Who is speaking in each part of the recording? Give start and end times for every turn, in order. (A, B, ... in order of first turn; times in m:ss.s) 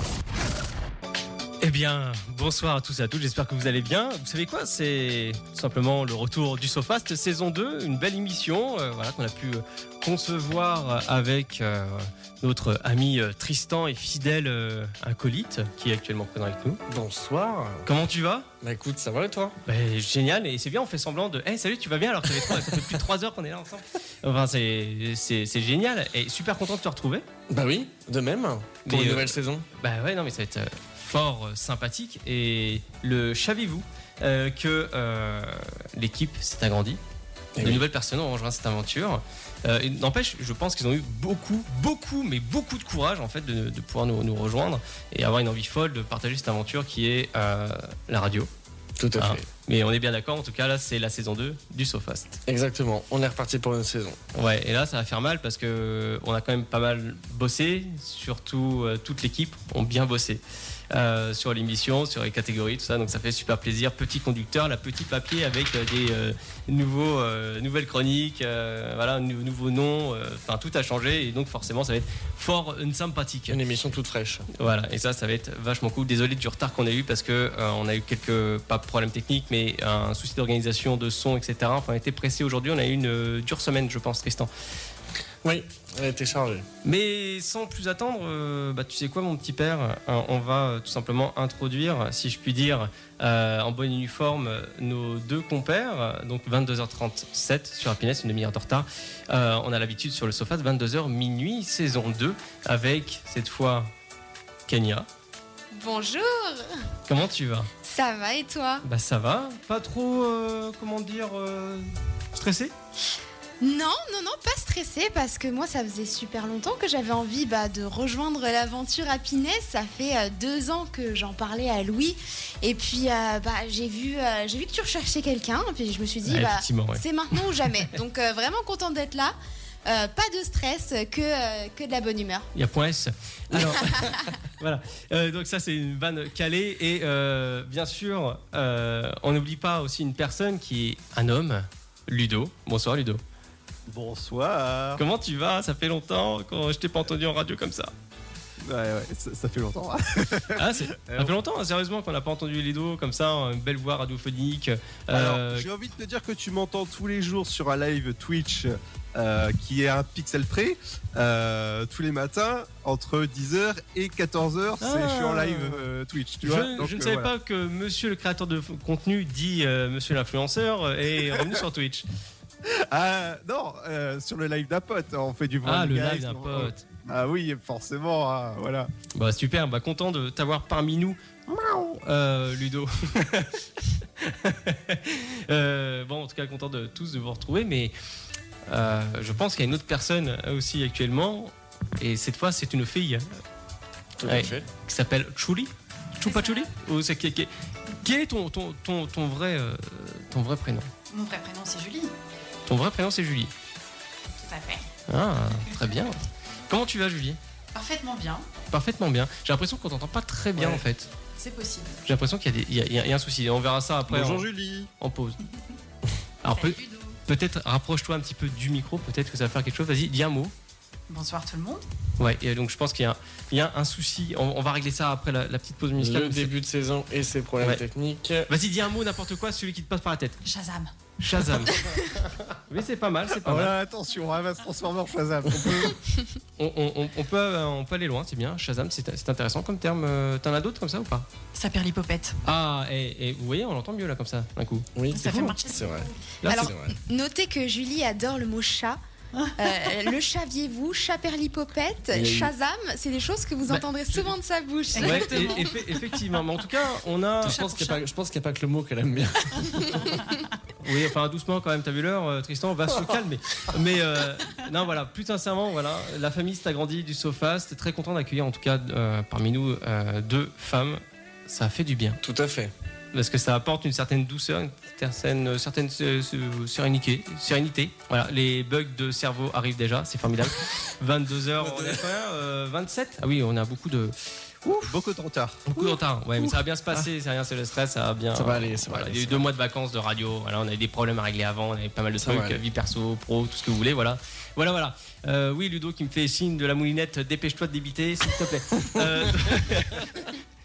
0:01.6-0:16.8 A
0:16.9-0:17.9 B
0:17.8-0:18.5 A
0:18.6-0:19.6 B
0:19.6-0:27.2 A
0:22.3-0:22.8 B
0:27.5-0:29.6 B
0:28.8-0:37.0 A
0:37.6-0:37.8 B
0:37.6-0:48.5 A
0:49.0-0:49.4 B
0:49.2-0:52.4 A
0:52.5-0:54.2 B
0:54.3-1:13.6 A
1:13.5-1:14.4 B
1:14.5-1:24.5 A
1:25.4-1:26.7 B
1:26.8-1:43.9 A
1:44.7-1:45.1 A
1:45.7-1:46.7 C
1:47.1-1:47.7 A
1:47.8-1:48.8 C
1:48.8-1:52.7 A
1:53.6-2:09.3 C
2:06.2-2:07.0 A
2:09.8-2:12.5 C
2:12.5-2:23.2 A
2:13.5-2:13.8 B
2:23.9-2:25.0 D
2:25.0-2:27.9 A
2:28.6-2:31.3 D
2:30.6-2:35.7 A
2:35.1-2:47.3 D
2:44.8-2:45.8 A
2:46.4-2:52.0 A
2:52.7-2:58.9 D
2:55.6-2:56.8 A
2:59.1-3:03.6 A
3:04.2-3:07.9 A
3:08.7-3:13.2 A
3:14.2-3:14.6 B
3:14.2-3:17.5 A
3:16.2-3:16.7 E
3:18.0-3:20.9 A
3:21.1-3:22.1 E
3:22.7-3:23.5 A
3:24.4-3:24.8 E
3:25.1-3:26.2 A
3:26.7-3:27.4 A
3:27.7-3:28.5 E
3:28.7-3:31.1 A
3:30.6-3:30.8 B
3:31.4-3:32.0 E
3:32.0-3:34.5 A
3:34.1-3:34.9 B
3:34.2-3:34.8 D
3:35.0-3:35.4 A
3:36.4-3:40.5 A
3:36.5-3:37.2 E
3:41.1-3:41.8 E
3:42.2-3:46.5 A
3:46.0-3:48.5 B
3:48.5-3:50.4 A
3:50.4-3:50.9 E
3:51.2-3:51.8 A
3:52.7-3:53.7 A
3:53.3-3:56.0 D
3:55.6-3:55.9 A
3:56.6-4:01.3 A
4:01.5-4:02.4 E
4:02.4-4:04.9 A
4:05.0-4:06.9 B
4:05.1-4:06.1 E
4:06.4-4:06.7 A
4:06.5-4:09.0 C
4:09.6-4:15.6 C
4:12.1-4:12.5 B
4:13.7-4:14.3 A
4:14.9-4:15.8 E
4:15.0-4:18.0 A
4:17.4-4:20.0 B
4:20.8-4:32.2 A
4:32.2-4:32.7 B
4:33.1-4:44.1 A
4:41.6-4:42.0 B
4:44.6-4:47.0 D
4:45.7-5:00.3 A
4:48.3-4:49.5 B
4:52.2-4:52.6 B